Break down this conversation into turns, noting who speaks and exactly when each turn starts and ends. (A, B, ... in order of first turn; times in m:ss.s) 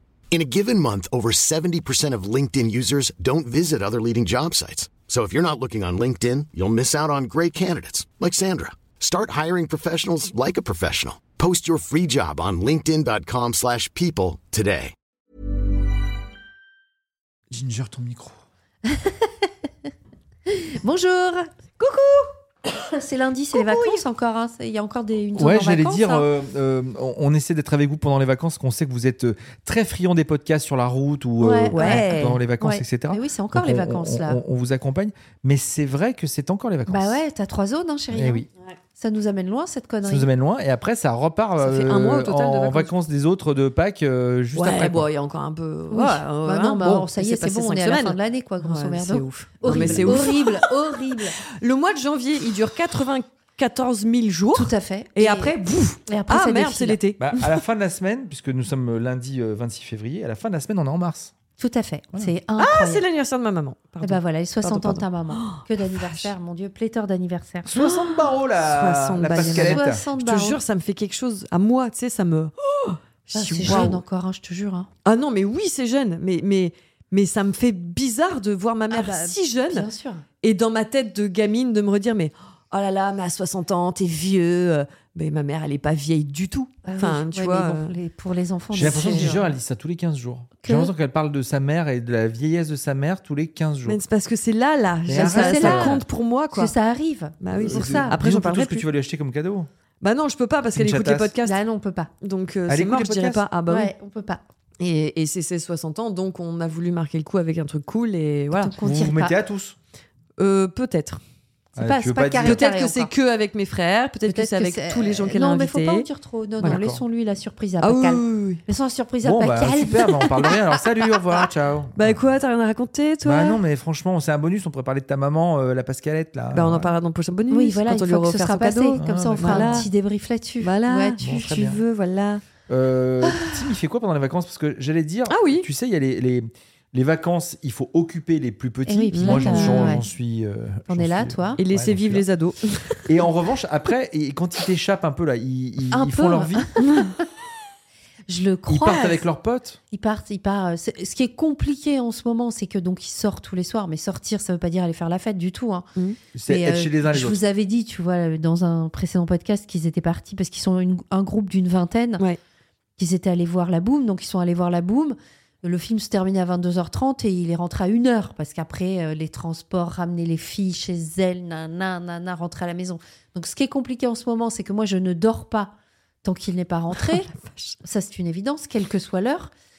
0:00.3-0:14.9 A
0:17.5-0:18.4 B
0:18.8-0:19.5 C
0:20.5-0:26.3 C
0:23.5-0:24.0 D
0:25.3-0:37.2 B
0:31.4-0:34.4 C
0:31.7-0:32.4 D
0:36.9-0:40.3 C
0:38.1-0:38.4 B
0:40.0-0:45.1 B
0:41.6-0:42.9 D
0:44.5-0:50.7 D
0:45.9-0:51.4 C
0:49.7-0:50.2 B
0:51.6-0:57.6 D
0:54.5-0:57.0 C
0:57.2-1:01.3 B
1:01.6-1:03.0 C
1:02.6-1:06.3 D
1:04.0-1:07.7 C
1:07.6-1:10.0 B
1:07.8-1:14.0 D
1:09.2-1:10.6 C
1:13.3-1:14.9 C
1:13.6-1:13.9 B
1:15.0-1:19.9 D
1:18.9-1:20.2 C
1:20.4-1:27.9 D
1:26.8-1:29.4 C
1:28.7-1:34.0 B
1:28.7-1:29.4 D
1:30.6-1:30.9 C
1:33.8-1:36.7 D
1:35.0-1:36.0 B
1:35.1-1:38.2 C
1:37.4-1:38.9 D
1:37.6-1:39.7 B
1:40.0-1:41.6 D
1:40.7-1:41.3 B
1:41.4-1:42.1 C
1:42.2-1:43.9 D
1:42.7-1:43.4 B
1:43.7-1:44.4 C
1:44.8-1:48.7 D
1:48.5-1:49.4 C
1:48.8-1:49.8 B
1:50.4-1:51.2 D
1:51.7-1:53.1 C
1:51.8-1:52.6 B
1:52.4-1:56.1 D
1:54.3-2:00.5 C
1:56.6-1:57.0 B
1:57.8-1:58.6 D
1:59.2-2:02.2 B
2:01.9-2:03.6 D
2:03.2-2:06.9 B
2:06.5-2:09.9 D
2:07.5-2:11.2 C
2:09.0-2:09.8 B
2:10.6-2:12.4 D
2:11.2-2:11.8 B
2:12.7-2:22.2 B
2:13.2-2:13.5 D
2:15.3-2:15.7 D
2:18.8-2:20.0 C
2:19.1-2:20.0 D
2:20.9-2:21.6 C
2:21.6-2:23.1 D
2:23.1-2:26.7 B
2:25.9-2:27.1 C
2:26.8-2:27.1 D
2:28.3-2:29.2 C
2:28.7-2:29.8 B
2:29.9-2:35.9 C
2:36.3-2:37.4 B
2:36.5-2:42.2 C
2:43.0-2:57.3 C
2:56.9-2:57.8 D
2:57.8-2:59.5 C